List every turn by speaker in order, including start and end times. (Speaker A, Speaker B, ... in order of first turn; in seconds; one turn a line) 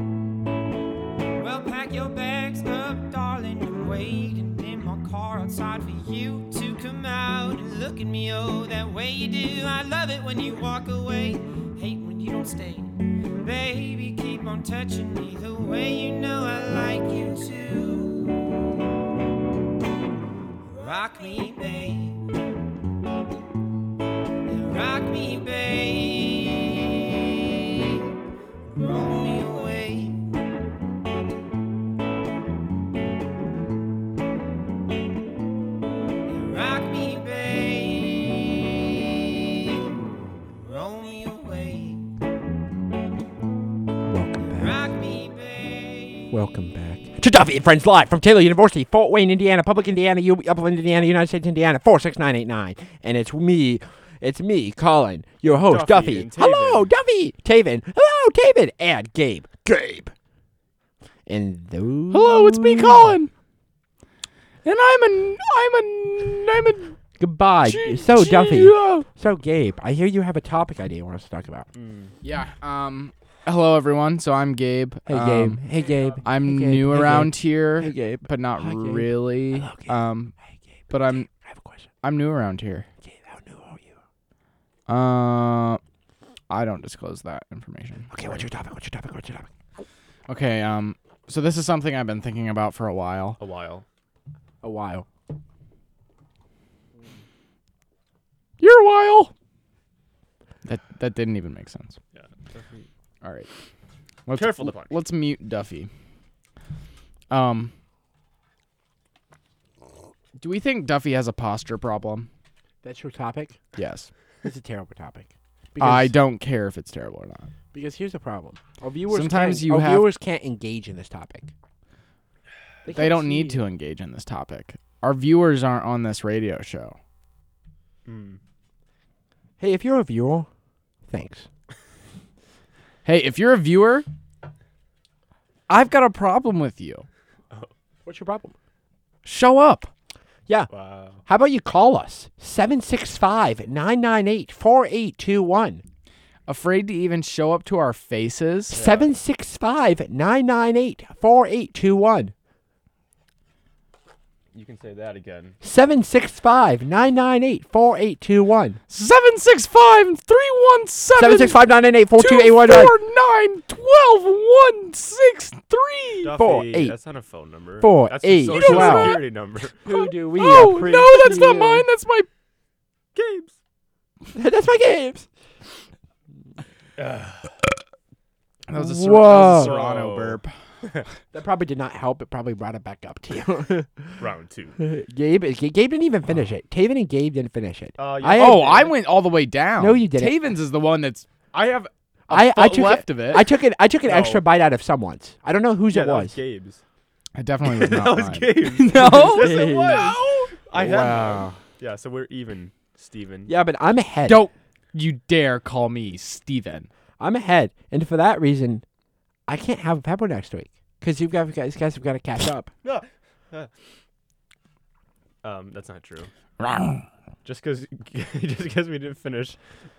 Speaker A: 1.4-18.5
Speaker A: 20.7-22.2
Speaker A: 24.4-28.1
Speaker A: 28.7-30.2
Speaker A: 36.3-39.7
Speaker A: 40.6-42.0
Speaker B: 44.1-44.9
Speaker A: 44.6-46.3
Speaker B: 46.3-60.1
Speaker C: 55.4-56.9
Speaker B: 61.3-63.2
Speaker D: 62.1-63.3
Speaker D: 64.7-67.0
Speaker B: 67.2-71.7
Speaker D: 67.7-69.1
Speaker C: 71.8-72.2
Speaker D: 72.2-75.6
Speaker B: 75.1-80.0
Speaker D: 76.2-80.3
Speaker B: 80.9-81.9
Speaker D: 80.9-81.3
Speaker D: 82.0-82.9
Speaker B: 83.0-84.0
Speaker D: 84.9-85.8
Speaker D: 86.5-88.5
Speaker B: 88.1-89.5
Speaker D: 90.3-93.4
Speaker C: 93.4-93.9
Speaker B: 94.6-95.1
Speaker D: 98.6-99.3
Speaker D: 100.7-102.0
Speaker C: 102.1-102.9
Speaker D: 103.2-103.5
Speaker D: 104.3-105.9
Speaker C: 104.3-105.0
Speaker D: 107.3-107.7
Speaker D: 110.4-112.3
Speaker B: 112.8-113.6
Speaker D: 113.8-114.1
Speaker B: 114.4-116.2
Speaker D: 115.8-117.5
Speaker B: 117.7-121.5
Speaker D: 119.1-120.1
Speaker B: 122.8-123.7
Speaker D: 122.9-127.0
Speaker C: 128.1-128.4
Speaker B: 129.6-130.5
Speaker B: 131.1-131.5
Speaker D: 133.1-134.1
Speaker D: 135.7-137.1
Speaker B: 138.1-138.6
Speaker D: 139.2-139.9
Speaker C: 140.7-141.2
Speaker B: 141.2-145.8
Speaker D: 146.5-148.8
Speaker C: 148.7-149.1
Speaker B: 148.7-152.3
Speaker C: 154.5-155.6
Speaker B: 155.6-158.8
Speaker D: 158.9-161.6
Speaker B: 161.2-163.0
Speaker D: 162.2-166.3
Speaker C: 166.2-169.8
Speaker B: 166.4-167.0
Speaker B: 167.8-169.3
Speaker D: 168.5-169.2
Speaker B: 169.8-171.9
Speaker D: 169.9-172.3
Speaker C: 173.2-173.6
Speaker B: 174.3-175.3
Speaker C: 177.0-177.5
Speaker D: 178.7-180.5
Speaker B: 178.7-179.8
Speaker C: 179.2-181.1
Speaker B: 181.3-184.2
Speaker C: 184.2-184.8
Speaker B: 184.8-188.8
Speaker C: 188.0-188.9
Speaker D: 188.3-191.3
Speaker B: 189.8-190.5
Speaker C: 191.5-191.9
Speaker B: 192.3-196.4
Speaker D: 192.3-193.5
Speaker C: 194.0-194.4
Speaker C: 195.9-196.8
Speaker D: 197.4-201.5
Speaker C: 197.7-203.5
Speaker B: 198.9-200.2
Speaker B: 200.8-201.6
Speaker B: 203.5-204.4
Speaker D: 204.3-206.9
Speaker B: 207.2-208.8
Speaker B: 209.5-212.7
Speaker C: 212.8-213.7
Speaker C: 215.4-216.3
Speaker D: 216.6-217.0
Speaker C: 217.4-219.6